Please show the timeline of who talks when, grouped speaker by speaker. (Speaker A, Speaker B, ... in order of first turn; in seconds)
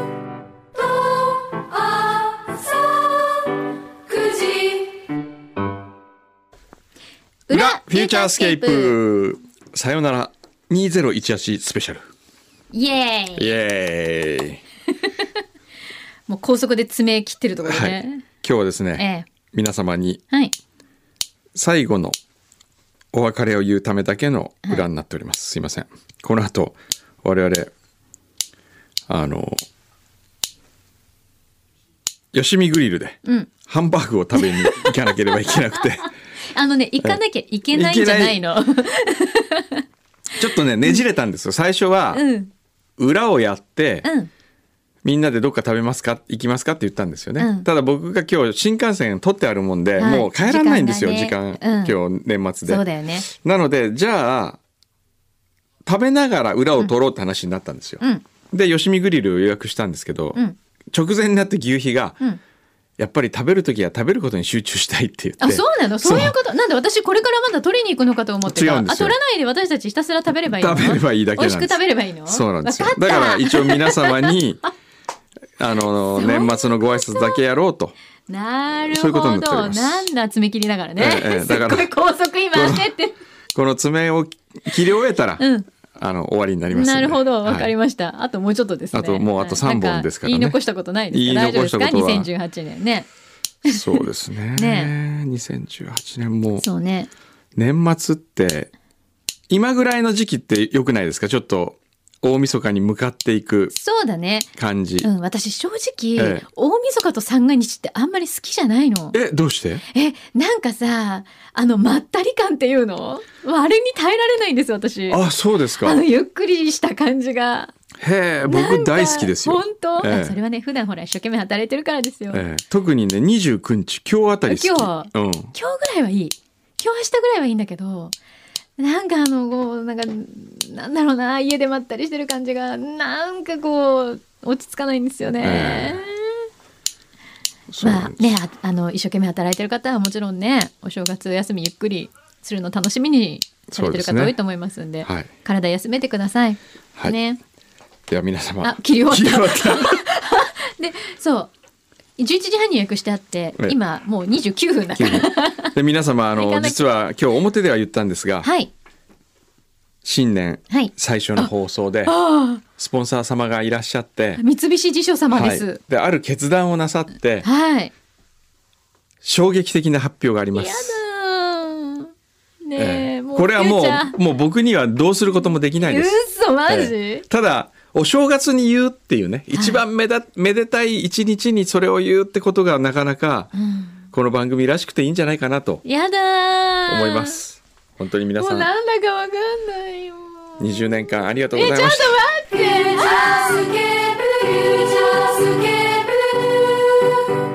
Speaker A: 0.8-3.5, 4.1-5.0, 7.5-9.0, 12.7-13.5, 16.3-18.2, 19.0-19.3, 33.2-33.5, 34.3-35.3, 36.5-39.8, 42.1-42.5, 44.0-44.3, 47.4-47.7, 50.0-52.0, 52.6-53.3, 65.4-74.4, 76.2-77.4, 78.3-83.2, 85.4-85.7, 86.7-93.1, 93.6-94.9, 96.6-97.1, 103.7-104.5, 105.0-109.2, 109.9-115.2, 115.8-117.7, 118.4-122.4, 124.5-128.1, 128.8-136.5, 137.8-147.4, 148.6-151.5, 152.2-155.7, 156.3-156.9, 158.4-158.7, 160.7-161.5, 162.1-162.6, 164.4-165.8, 167.4-167.9, 170.5-172.1, 172.7-174.2, 175.8-177.2, 179.5-179.8, 183.5-184.0, 185.8-187.4, 188.4-191.0, 191.5-197.2
Speaker B: 7.5-12.1, 13.4-14.6, 17.7-20.2, 21.5-22.2, 23.1-27.7, 29.1-29.6, 32.3-36.1, 37.7-38.4, 40.4-42.2, 43.0-44.1, 45.0-54.6, 55.9-60.4, 60.9-62.2, 63.0-66.4, 68.5-69.2, 70.5-74.6, 75.6-77.9, 78.9-80.1, 81.0-81.9, 82.5-82.9, 83.5-85.4, 86.0-87.7, 88.9-90.6, 91.1-92.3, 93.6-96.6, 97.5-98.7, 99.5-103.7, 104.6-105.1, 106.2-106.4, 109.1-109.8, 115.1-116.0, 118.0-120.4, 122.3-125.5, 135.4-136.0, 137.7-138.3, 143.7-144.3, 145.0-145.3, 148.1-150.0, 155.0-158.5, 160.0-162.2, 162.8-164.4, 165.3-167.5, 169.2-171.0, 172.8-176.2, 176.7-183.5, 184.1-185.8, 186.9-188.7, 190.6-192.2